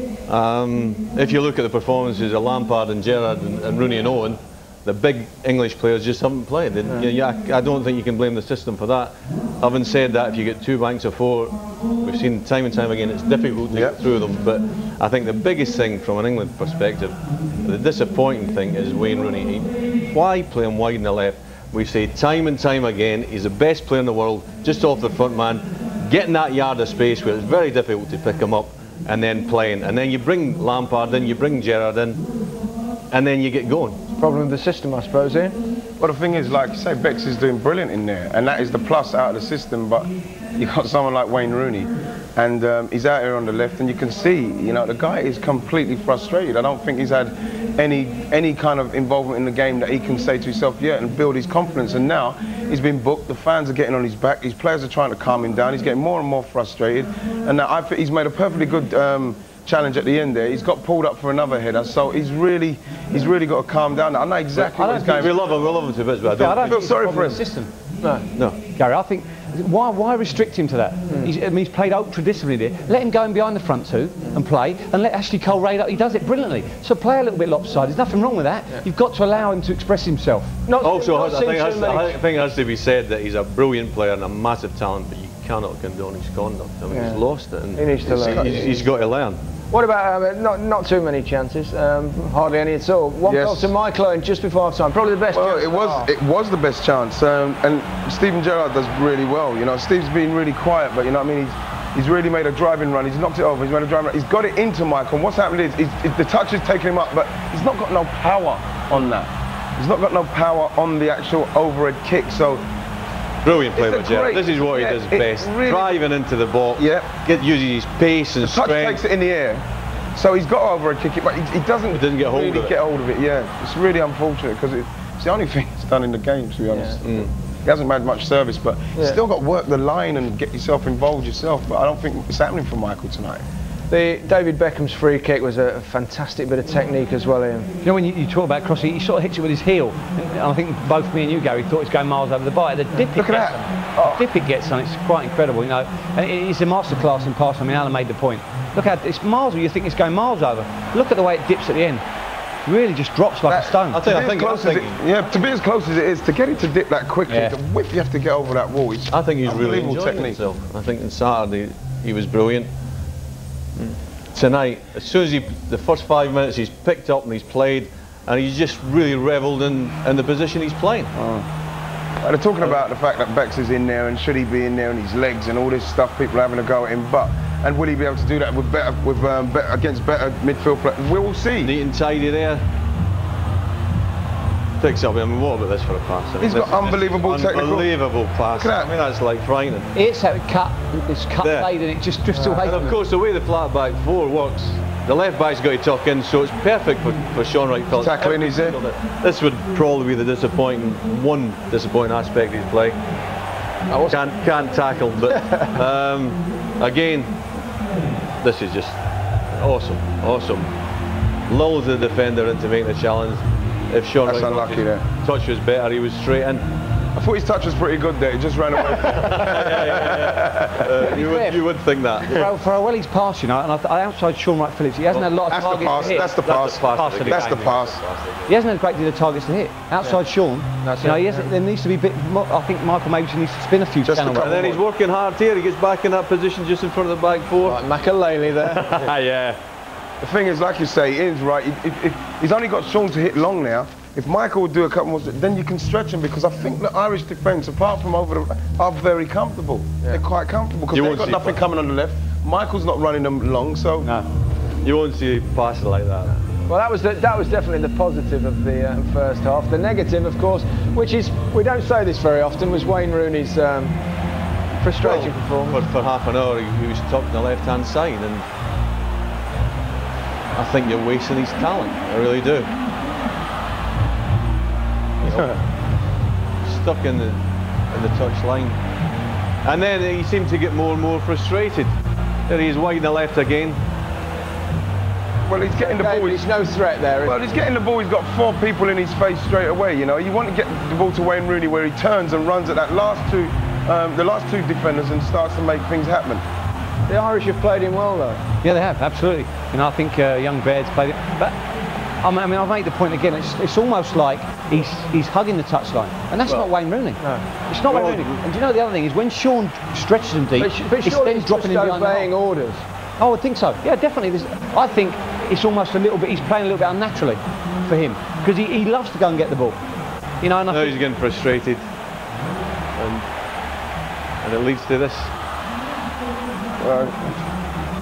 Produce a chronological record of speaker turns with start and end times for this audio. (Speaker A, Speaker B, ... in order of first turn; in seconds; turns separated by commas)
Speaker A: 0.3-32.2, Speaker B: 13.7-14.0, Speaker A: 33.1-34.0, Speaker C: 34.1-35.6, Speaker B: 36.0-65.4, Speaker D: 64.5-65.2, Speaker A: 64.9-66.8, Speaker D: 66.3-67.7, Speaker B: 66.6-67.4, Speaker D: 68.7-80.6, Speaker C: 80.7-82.2, Speaker A: 80.8-89.4, Speaker C: 86.9-87.2, Speaker C: 87.7-88.7, Speaker B: 88.1-88.8, Speaker C: 89.7-96.1, Speaker B: 93.2-93.7, Speaker B: 95.3-112.6, Speaker A: 113.4-119.0, Speaker B: 113.7-116.0, Speaker B: 116.8-117.1, Speaker B: 118.4-119.6, Speaker B: 120.1-133.4, Speaker A: 121.9-122.8, Speaker A: 127.0-127.3, Speaker C: 133.9-137.8, Speaker D: 137.8-152.0, Speaker B: 143.1-144.2, Speaker D: 152.7-154.0, Speaker B: 153.4-160.4, Speaker A: 153.9-155.0, Speaker D: 157.3-157.5, Speaker A: 159.1-162.7, Speaker A: 163.8-171.1, Speaker B: 171.2-171.4, Speaker B: 172.2-181.7, Speaker A: 181.6-182.6, Speaker A: 184.8-189.9, Speaker B: 186.4-187.9, Speaker B: 188.5-188.9, Speaker D: 189.9-193.0, Speaker A: 191.4-191.7, Speaker A: 192.4-203.0, Speaker B: 197.9-198.8, Speaker A: 204.1-207.5, Speaker A: 208.4-209.0, Speaker A: 209.5-210.7, Speaker A: 211.5-216.6, Speaker B: 214.2-215.0, Speaker B: 217.2-220.8, Speaker A: 219.1-222.5, Speaker D: 221.1-221.6, Speaker D: 222.2-227.8, Speaker A: 225.1-228.5, Speaker B: 225.5-228.0, Speaker D: 228.5-234.6, Speaker C: 230.8-231.5, Speaker B: 234.1-234.8, Speaker A: 234.3-237.8, Speaker C: 237.6-239.0, Speaker A: 238.7-239.5, Speaker B: 240.2-254.1, Speaker A: 250.9-251.6, Speaker A: 254.8-256.4, Speaker C: 256.6-264.0, Speaker C: 264.8-265.8, Speaker A: 265.0-268.4, Speaker A: 270.5-272.7, Speaker A: 275.2-275.6, Speaker A: 276.6-278.8, Speaker A: 279.6-281.9, Speaker A: 282.5-283.8, Speaker B: 285.5-286.4, Speaker C: 285.8-287.4, Speaker B: 287.2-296.4, Speaker C: 297.1-298.4, Speaker D: 298.6-301.6, Speaker D: 302.2-312.3, Speaker A: 307.9-308.4, Speaker C: 310.6-312.8, Speaker D: 313.2-319.8, Speaker D: 320.4-321.0, Speaker A: 320.7-321.9, Speaker A: 322.9-323.3, Speaker A: 324.4-325.3, Speaker B: 326.8-327.4